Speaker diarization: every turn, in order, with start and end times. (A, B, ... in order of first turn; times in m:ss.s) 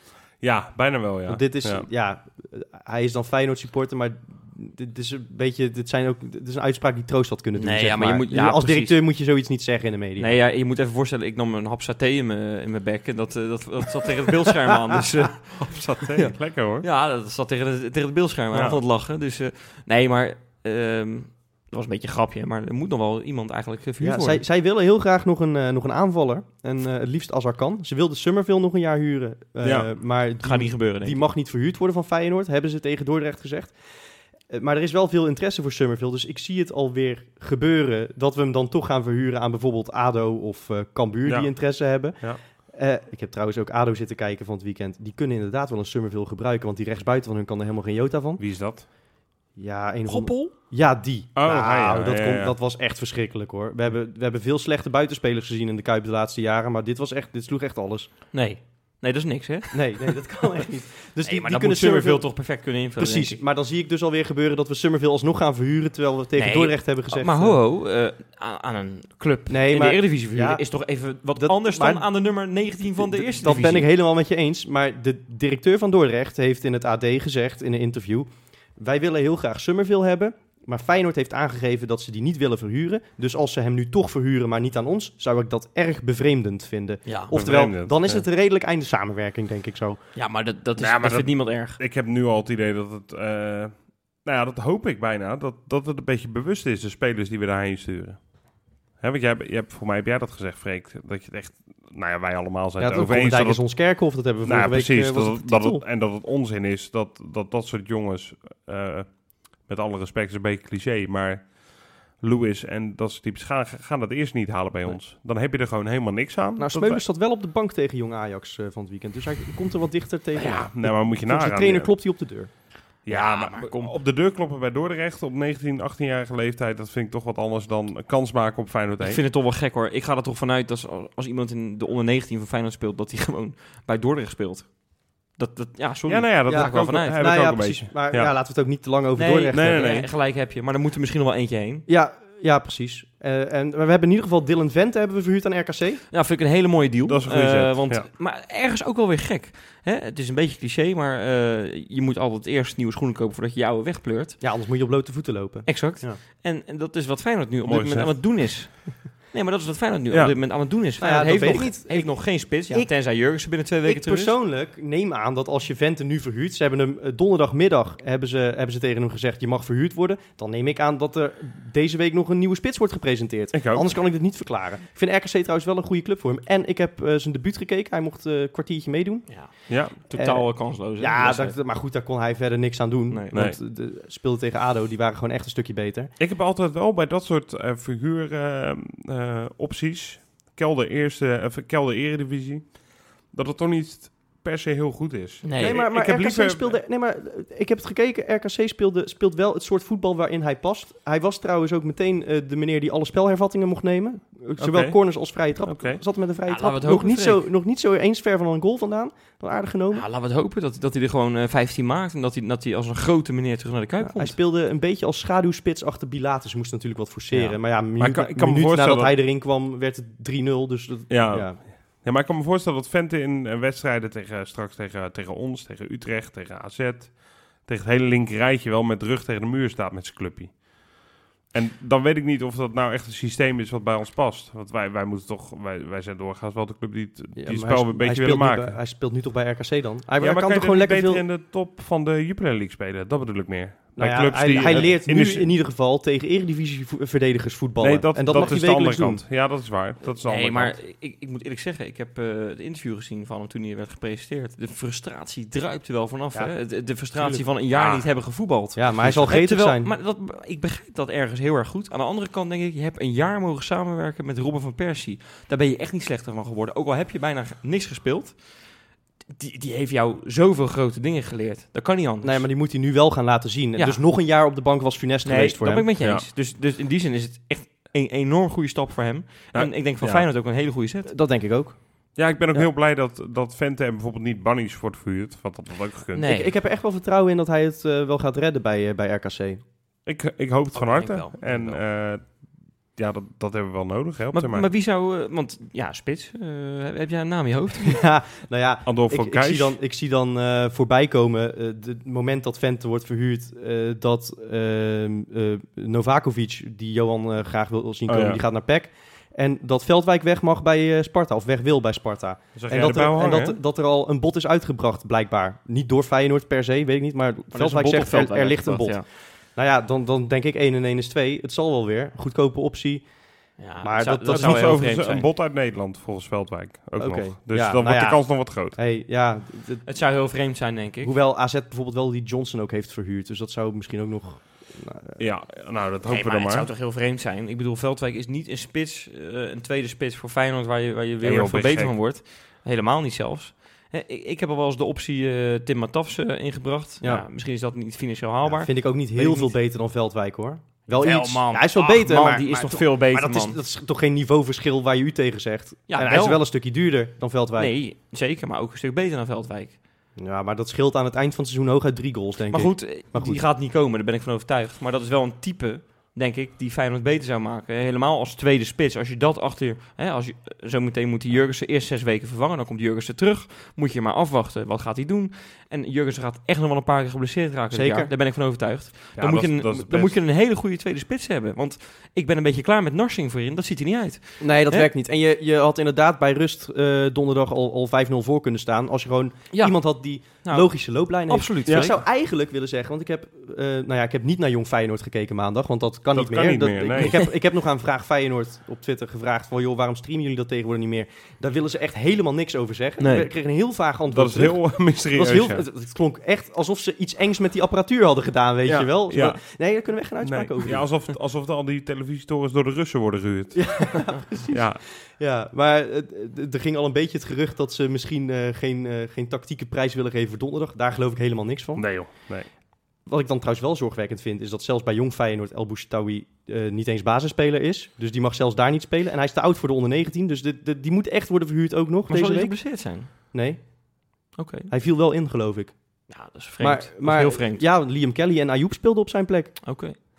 0:00.4-0:01.9 A
0:01.3-0:10.4 B
0:07.6-0:09.0 C
0:10.2-0:24.4 C
0:15.6-0:16.9 A
0:18.5-0:18.8 A
0:24.0-0:33.8 B
0:29.6-0:29.9 A
0:30.4-0:31.2 C
0:34.5-0:48.4 B
0:41.2-0:41.5 A
0:48.4-0:48.9 A
0:49.6-0:58.1 B
0:50.1-0:50.5 C
0:51.4-0:52.5 A
0:58.3-1:00.4 C
0:59.7-1:02.3 B
1:01.2-1:03.4 C
1:03.0-1:07.6 B
1:06.4-1:13.9 C
1:09.5-1:10.6 B
1:11.4-1:12.1 B
1:13.0-1:30.0 B
1:27.0-1:27.3 C
1:27.3-1:28.2 A
1:30.2-1:31.8 C
1:30.8-1:38.2 A
1:39.0-1:43.8 A
1:42.8-1:45.8 B
1:44.4-1:57.0 A
1:56.6-2:02.5 B
2:00.4-2:01.9 A
2:03.1-2:09.2 A
2:03.1-2:03.9 C
2:09.0-2:17.2 C
2:16.1-2:18.3 A
2:16.5-2:19.9 B
2:19.2-2:21.9 C
2:19.5-2:20.1 A
2:21.9-2:26.0 B
2:26.1-2:34.4 C
2:27.1-2:28.1 A
2:34.4-2:36.2 B
2:35.7-2:44.4 C
2:37.7-2:38.4 A
2:41.0-2:42.9 B
2:43.8-3:06.1 B
2:53.5-2:53.9 A
2:59.3-3:01.6 C
2:59.7-3:00.0 A
3:03.1-3:03.4 C
3:06.2-3:16.8 A
3:15.4-3:15.8 C
3:15.6-3:30.0 B
3:24.6-3:25.0 A
3:25.7-3:26.0 A
3:26.5-3:27.5 C
3:29.9-3:34.4 C
3:34.0-3:41.6 B
3:37.3-3:37.6 C
3:38.0-3:39.1 A
3:41.1-3:50.6 A
3:51.5-3:58.8 A
3:57.4-4:01.2 B
4:00.2-4:05.5 A
4:04.0-4:09.2 B
4:07.8-4:10.8 A
4:10.0-4:28.6 C
4:17.2-4:17.4 B
4:17.7-4:18.0 A
4:18.8-4:19.9 B
4:29.3-4:32.5 C
4:32.2-4:35.9 B
4:33.8-4:34.0 C
4:35.2-4:41.1 C
4:39.5-4:40.3 A
4:41.1-4:41.8 B
4:42.2-4:46.3 A
4:46.2-4:46.5 C
4:46.2-4:49.6 B
4:50.1-4:54.7 A
4:50.8-4:51.8 C
4:54.3-4:58.0 C
4:57.8-5:23.1 B
4:58.9-4:59.8 A
5:08.1-5:08.4 A
5:12.6-5:13.6 A
5:17.5-5:19.0 C
5:23.6-5:25.3 C
5:23.8-5:25.0 B
5:24.3-5:28.8 A
5:27.0-5:29.8 B
5:29.9-5:31.1 C
5:31.0-5:35.2 B
5:35.2-5:36.7 A
5:36.1-5:49.5 C
5:41.2-5:41.9 A
5:48.5-5:57.7 B
5:50.9-5:53.6 C
5:55.9-5:56.4 C
5:57.6-5:59.8 C
6:00.2-6:03.4 B
6:02.5-6:24.9 C
6:17.7-6:18.1 B
6:19.2-6:20.2 A
6:24.4-6:44.6 B
6:29.5-6:29.8 C
6:30.4-6:30.7 C
6:31.2-6:32.0 C
6:36.2-6:37.2 A
6:43.0-6:43.3 C
6:44.1-6:45.6 A
6:45.1-6:50.9 B
6:48.7-6:49.4 A
6:50.2-6:54.8 A
6:53.5-7:01.9 B
7:01.8-7:02.5 A
7:03.1-7:12.6 B
7:12.1-7:13.1 C
7:13.3-7:13.6 B
7:14.4-7:14.7 C
7:14.7-7:15.8 B
7:16.1-7:17.6 C
7:16.6-7:19.6 B
7:19.6-7:20.0 C